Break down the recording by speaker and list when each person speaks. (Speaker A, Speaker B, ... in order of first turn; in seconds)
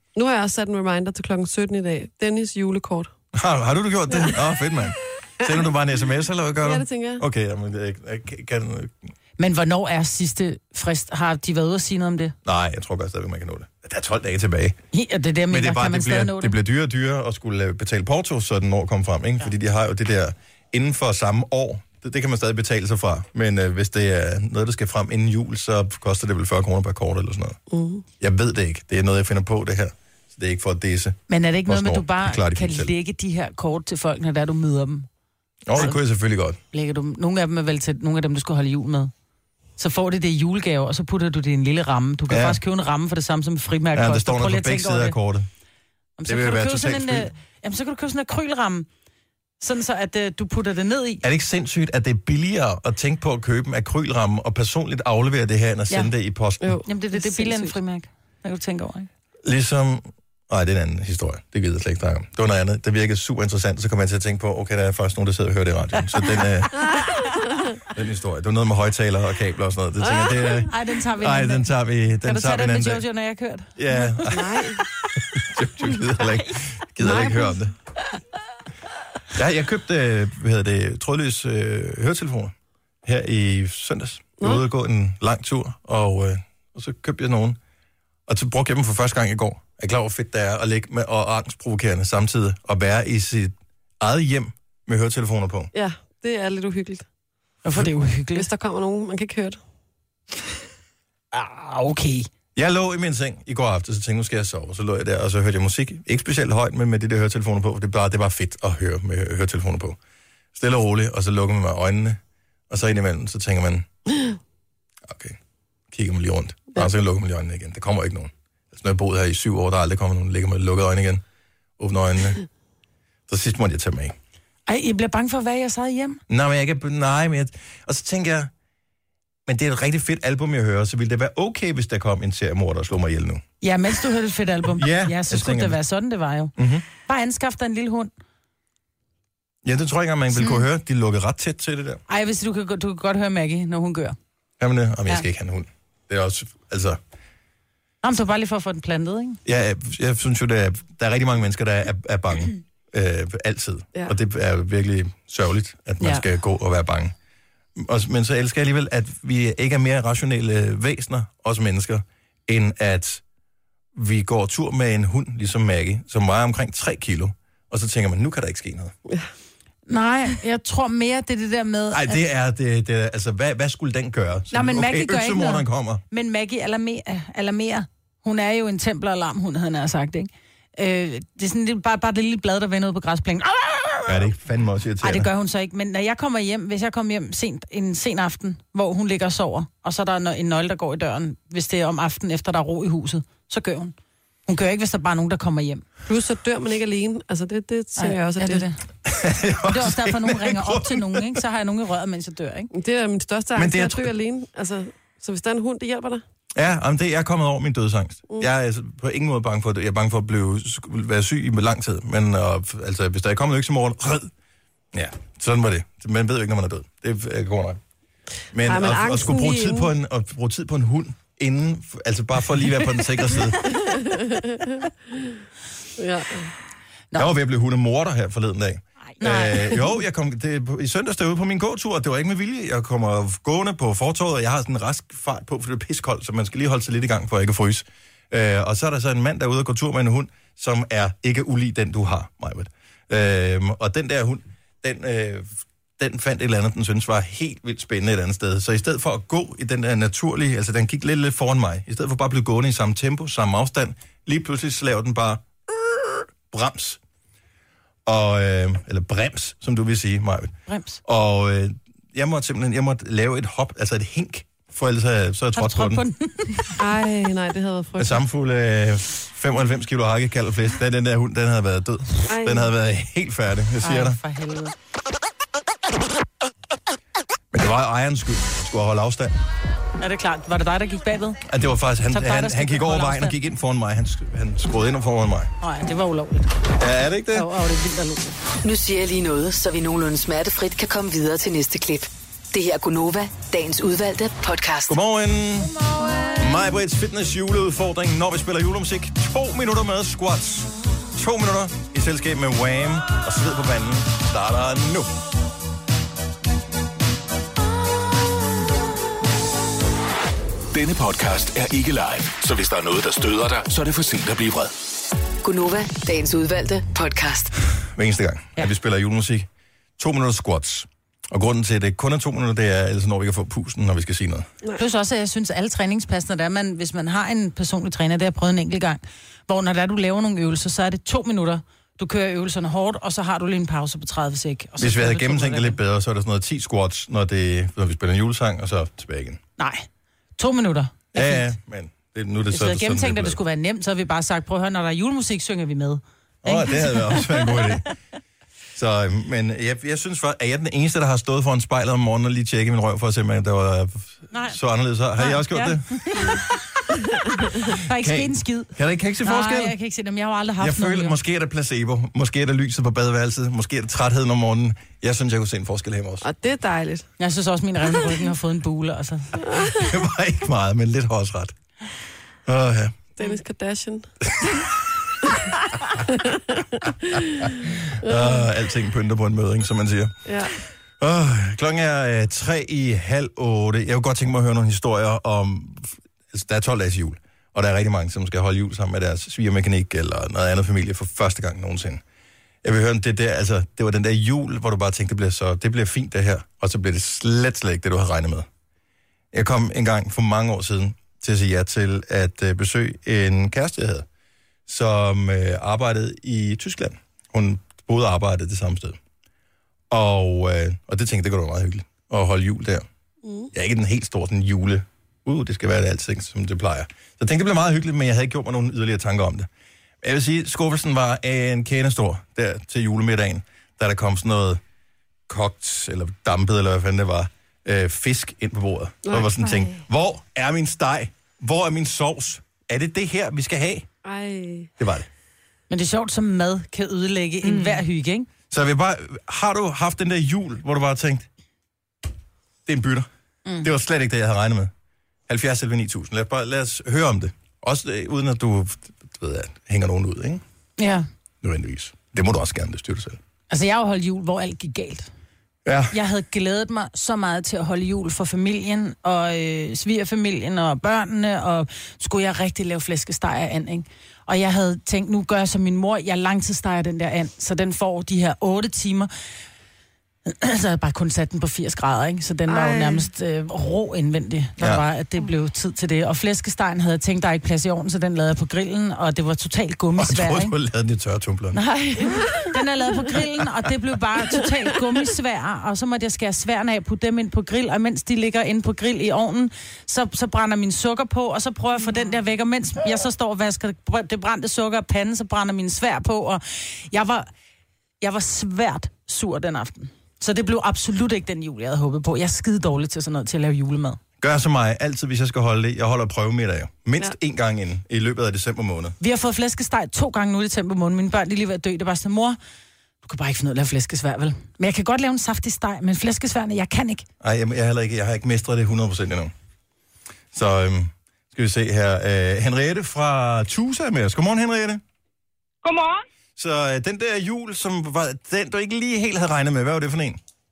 Speaker A: 0.1-3.1, 6.6-7.2, 27.7-28.0, 56.6-57.8, 67.0-67.6, 70.0-70.5, 74.2-74.8, 77.0-77.6, 95.7-97.1, 98.3-99.6, 196.1-198.6, 202.7-206.2, 218.6-219.9, 223.6-225.4, 226.0-226.5, 266.8-268.2, 272.3-272.7, 366.2-367.1, 369.4-369.8, 373.2-374.1, 376.0-377.5, 378.0-378.4, 380.2-380.6, 413.2-413.5, 429.0-429.3, 434.0-434.7, 472.5-473.1, 482.1-482.5
Speaker B: 3.3-8.9, 12.4-14.8, 15.5-27.6, 28.2-32.9, 35.7-36.6, 42.3-42.6, 43.9-45.5, 46.2-47.3, 51.2-56.8, 59.4-67.0, 67.9-73.0, 73.8-74.6, 75.2-77.7, 79.3-87.6, 88.3-95.7, 102.5-110.0, 110.5-112.2, 112.7-113.8, 115.0-115.4, 115.9-121.2, 121.8-122.4, 123.3-124.1, 126.3-128.5, 129.4-133.4, 134.7-135.8, 136.6-136.8, 139.6-142.0, 144.6-147.0, 149.4-157.1, 157.8-163.2, 163.9-168.9, 171.9-176.0, 184.1-185.3, 199.0-201.4, 203.6-204.1, 206.5-214.3, 214.9-217.8, 218.5-223.8, 227.2-257.0, 258.1-266.0, 268.0-274.2, 277.5-279.3, 281.5-285.5, 286.8-287.5, 294.9-295.7, 296.3-305.1, 317.8-324.5, 334.8-339.4, 341.1-343.4, 346.4-347.9, 348.7-356.4, 357.9-359.7, 360.6-366.2, 369.7-371.6, 372.4-373.1, 377.6-380.2, 381.0-392.0, 392.6-398.5, 399.3-404.1, 404.7-409.0, 409.9-412.8, 413.5-419.5, 420.0-424.6, 425.3-433.9, 434.8-435.1, 438.5-441.3, 442.6-443.1, 443.6-444.7, 445.3-450.4, 451.4-453.2, 455.6-456.0, 474.6-474.8, 480.0-481.6, 504.2-508.9, 517.2-519.3, 520.3-524.8, 526.4-530.2
Speaker C: 9.4-12.3, 14.9-16.5, 31.3-35.1, 36.7-39.1, 39.8-45.2, 46.2-48.9, 49.6-51.2, 56.9-59.1, 70.6-71.7, 72.2-73.8, 97.6-98.5, 101.3-102.3, 124.7-126.2, 133.6-138.1, 142.1-144.2, 148.0-149.4, 169.9-172.2, 174.5-184.3, 185.0-193.9, 194.5-195.8, 198.0-198.8, 199.7-202.7, 229.2-229.8, 260.7-261.0, 265.6-266.7, 273.8-274.7, 280.0-281.4, 282.1-283.4, 285.6-286.6, 287.3-288.4, 324.8-335.8, 339.6-339.9, 340.4-341.5, 342.5-347.8, 354.3-354.6, 355.1-356.5, 357.4-358.7, 359.2-361.2, 367.2-369.4, 435.7-438.3, 450.8-451.1, 453.5-455.1, 455.9-469.1, 470.2-480.5, 481.5-497.3, 498.0-504.0, 509.0-512.4, 513.0-517.0
Speaker D: 288.6-295.0, 315.4-317.5
Speaker E: 310.7-314.7